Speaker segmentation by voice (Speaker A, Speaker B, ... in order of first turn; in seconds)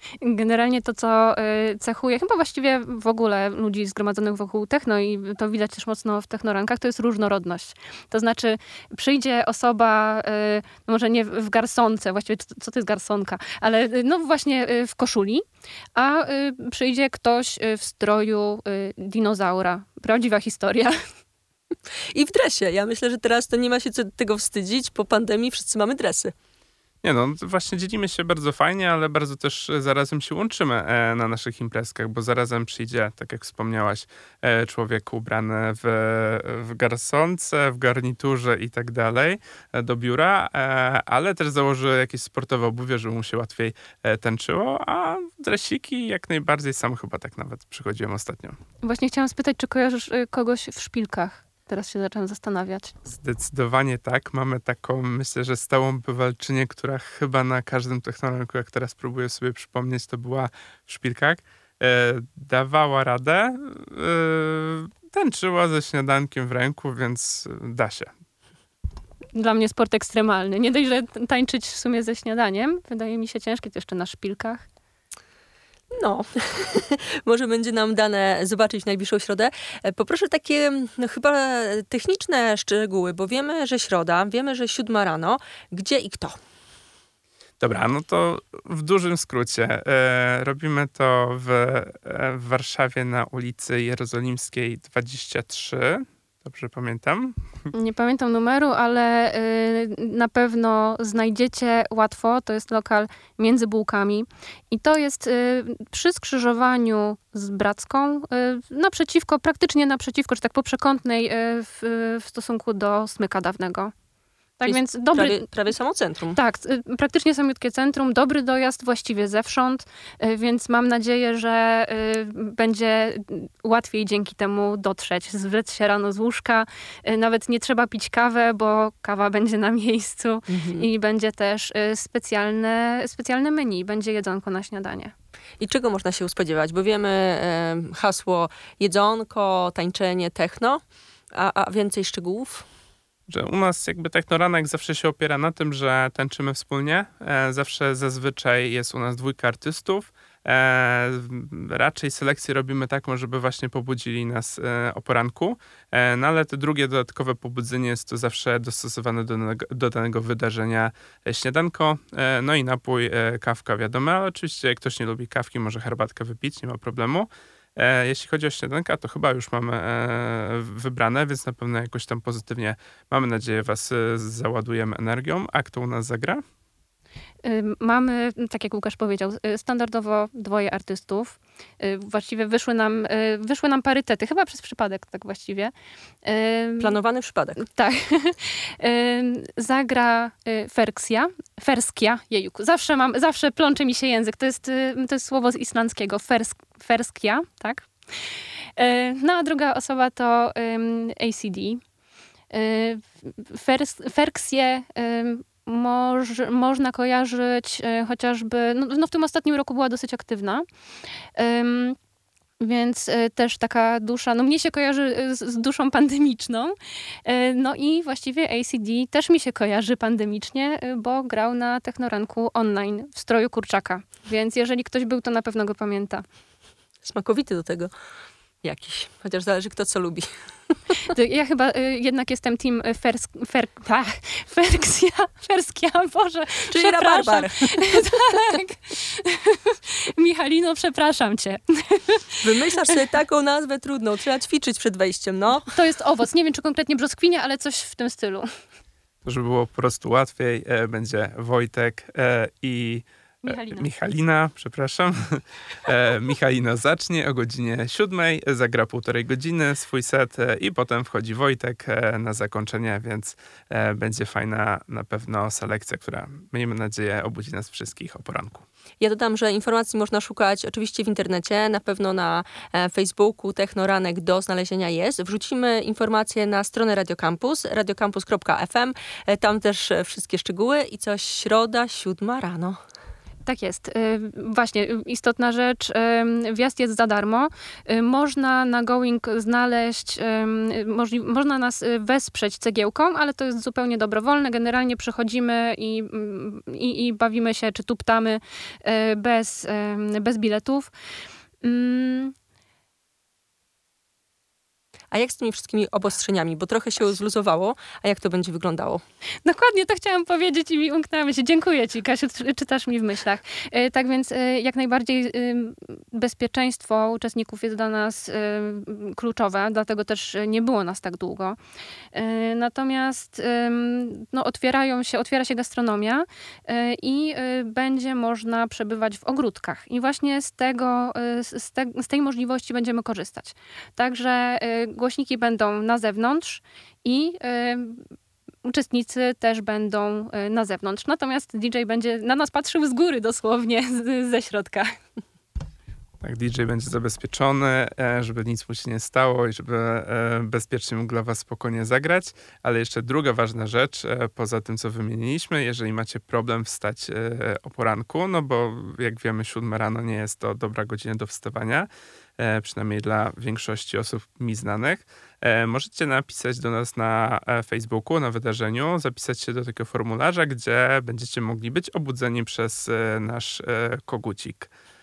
Speaker A: 0.2-15.4, 15.9-20.9, 48.8-52.9, 69.3-74.7, 97.7-113.9, 114.6-115.5, 116.3-135.1, 177.4-185.7, 186.2-187.0, 187.6-197.9, 198.8-201.8, 202.5-210.6, 211.4-212.0, 212.6-226.2, 231.1-242.9, 245.7-248.5, 253.4-253.9, 283.4-300.9, 301.6-302.3, 309.4-321.6, 322.1-338.0, 338.6-344.9
Speaker B: 22.1-26.3, 76.0-86.4, 114.6-116.4, 130.5-130.9, 135.6-140.8, 141.3-142.6, 186.8-187.7, 227.0-227.9, 228.6-230.3, 236.7-238.1, 242.4-245.7, 269.0-282.8, 305.1-309.0
Speaker C: 27.0-48.6, 53.0-68.1, 87.6-97.4, 143.3-176.4, 249.2-268.6, 346.2-374.7